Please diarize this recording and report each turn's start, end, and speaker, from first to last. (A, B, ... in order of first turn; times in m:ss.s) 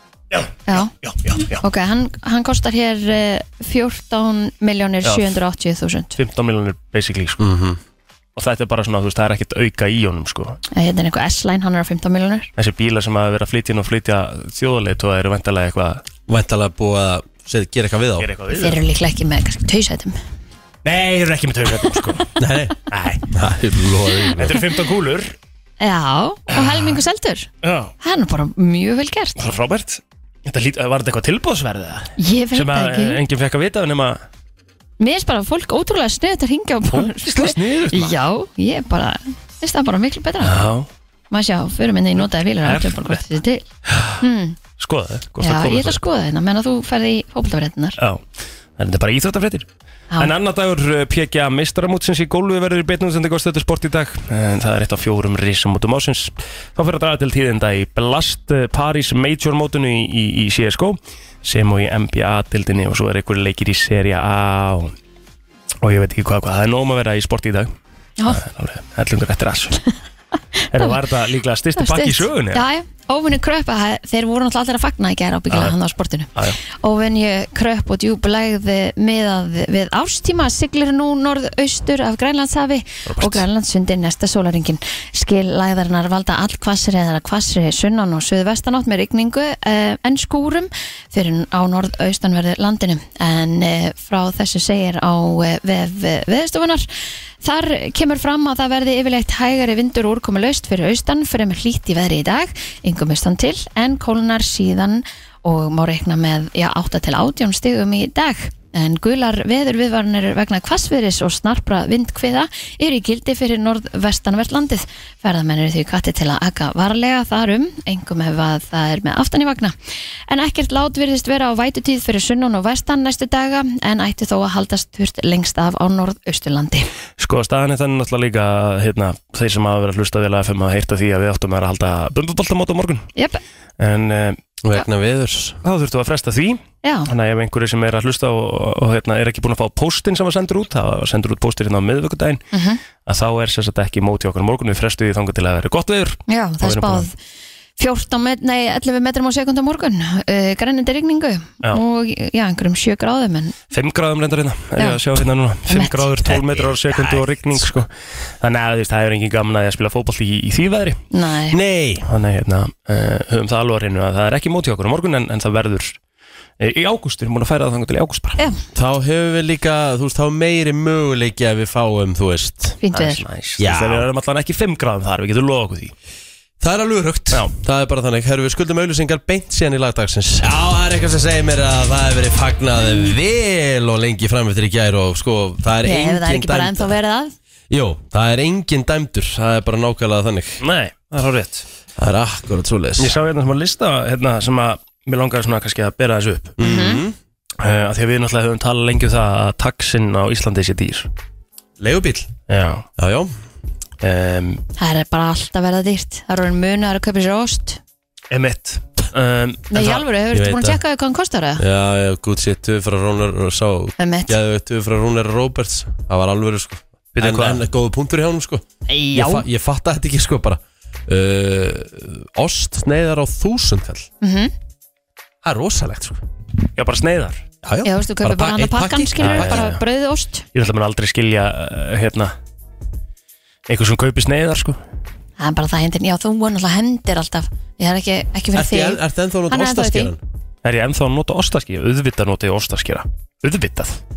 0:00.3-0:01.6 A
0:01.6-0:06.2 B
0:05.0-0:05.4 A
0:06.2-0:07.4 A
0:07.4-0:07.8 C
0:08.4-0:10.6 A
0:10.7-0:12.5 B
0:12.6-0:16.0 A
0:16.3-0:18.3 C
0:18.2-0:18.8 A
0:18.6-0:20.2 B
0:20.8-0:22.3 A
0:22.4-0:24.6 C
0:22.9-0:23.2 A
0:24.4-0:25.3 A
0:25.8-0:27.5 B
0:27.6-0:27.9 A
0:28.0-0:29.4 B
0:29.4-0:34.2 A
0:32.2-0:33.2 B
0:35.0-0:40.6 B
0:36.9-0:38.1 A
0:40.4-0:40.9 A
0:41.3-0:43.6 B
0:42.6-0:43.2 A
0:44.2-0:44.6 B
0:44.8-0:46.0 A
0:45.4-0:48.0 B
0:48.8-0:49.7 A
0:50.2-1:04.9 A
1:05.8-1:07.7 A
1:08.3-1:09.8 A
1:10.7-1:12.6 A
1:11.8-1:36.8 B
1:16.3-1:16.6 A
1:23.1-1:23.4 A
1:37.4-1:59.7 B
2:00.3-2:06.9 B
2:07.2-2:13.1 A
2:13.2-2:13.4 B
2:13.8-2:14.4 A
2:14.6-2:15.6 C
2:15.6-2:22.4 A
2:16.8-2:17.1 B
2:22.5-2:22.8 B
2:23.0-2:27.1 A
2:26.3-2:27.1 B
2:27.8-2:33.5 B
2:33.7-2:41.0 A
2:35.7-2:36.0 B
2:36.2-2:37.8 C
2:41.1-2:41.6 B
2:41.5-2:42.1 C
2:42.1-2:46.0 A
2:46.6-2:48.4 A
2:48.7-2:52.8 C
2:52.8-2:53.2 B
2:52.9-2:55.9 A
2:53.6-2:54.1 C
2:56.6-3:06.9 C
3:05.8-3:07.3 B
3:07.7-3:10.6 C
3:10.6-3:11.6 A
3:12.0-3:13.1 C
3:13.0-3:16.6 A
3:16.6-3:17.2 C
3:16.6-3:17.0 B
3:17.6-3:21.1 A
3:21.8-3:22.3 C
3:22.5-3:22.9 A
3:23.0-3:23.3 C
3:24.0-3:24.6 A
3:24.8-3:27.8 B
3:28.3-3:30.0 A
3:29.7-3:31.6 B
3:30.3-3:30.8 C
3:31.6-3:44.1 C
3:34.0-3:34.4 B
3:37.1-3:37.6 A
3:38.9-3:39.4 B
3:44.2-3:44.5 B
3:45.4-3:46.2 C
3:46.8-3:47.4 A
3:47.6-3:49.8 C
3:47.8-3:50.4 B
3:49.2-3:49.8 A
3:50.5-3:52.3 A
3:53.7-3:54.8 A
3:55.4-4:00.1 B
3:58.5-4:00.2 C
4:00.6-4:04.0 A